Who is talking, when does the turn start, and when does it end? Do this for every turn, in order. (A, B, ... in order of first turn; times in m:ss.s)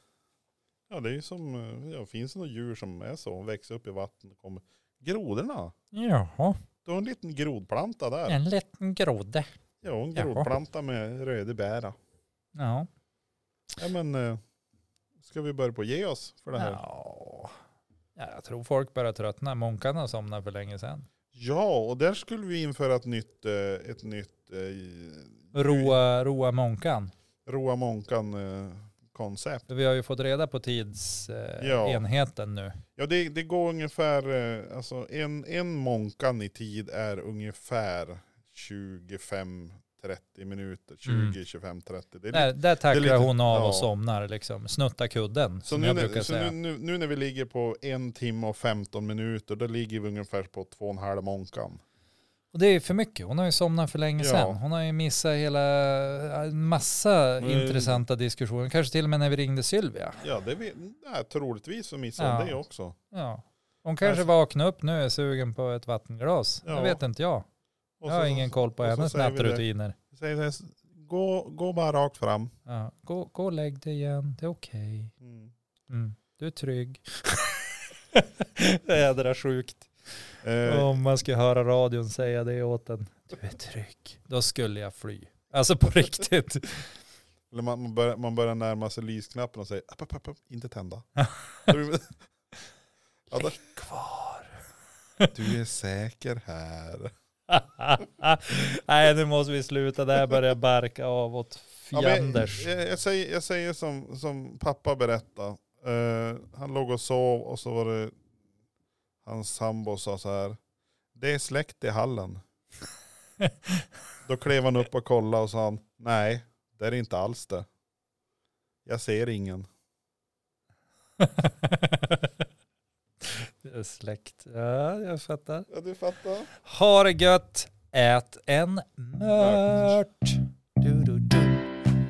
0:00.9-0:05.7 A
0:05.9-0:06.6 B
0:06.8-0:08.4 A
0:08.3-0:09.5 B
0:09.8-0:12.0 A
0:10.2-0:10.5 B
0:12.6-0:12.9 B
0:13.8-0:14.4 A
0:15.2-0:16.8 A
0:16.6-0:17.6 B
0:18.2-0:21.1 B
0:21.3-0:26.0 A
0:25.5-0:27.1 B
0:27.5-0:29.7 A
0:29.7-0:32.8 B
0:31.6-0:32.0 A
0:33.0-0:43.9 A
0:41.0-0:41.4 B
0:42.3-0:46.6 B
0:45.6-0:51.8 A
0:52.5-1:00.2 B
0:54.2-0:54.6 A
0:57.4-0:58.0 A
1:00.2-1:03.0 A
1:02.2-1:02.6 B
1:03.1-1:07.5 B
1:04.0-1:04.3 A
1:06.6-1:07.0 A
1:08.0-1:12.5 A
1:08.1-1:10.0 B
1:12.7-1:15.1 B
1:15.2-1:15.5 A
1:15.9-1:19.9 B
1:20.4-1:21.0 A
1:20.6-1:26.9 B
1:27.5-1:31.1 A
1:31.2-1:31.7 B
1:31.6-1:32.2 A
1:33.3-1:33.6 A
1:33.3-1:34.6 B
1:35.3-1:37.1 A
1:37.5-1:42.7 B
1:41.9-1:48.1 A
1:49.2-1:50.6 A
1:51.2-1:52.4 A
1:53.4-1:53.8 B
1:54.2-1:57.7 A
1:58.9-1:59.7 A
2:01.2-2:02.3 B
2:03.2-2:05.7 B
2:05.7-2:06.5 A
2:06.6-2:11.7 B
2:09.4-2:10.0 A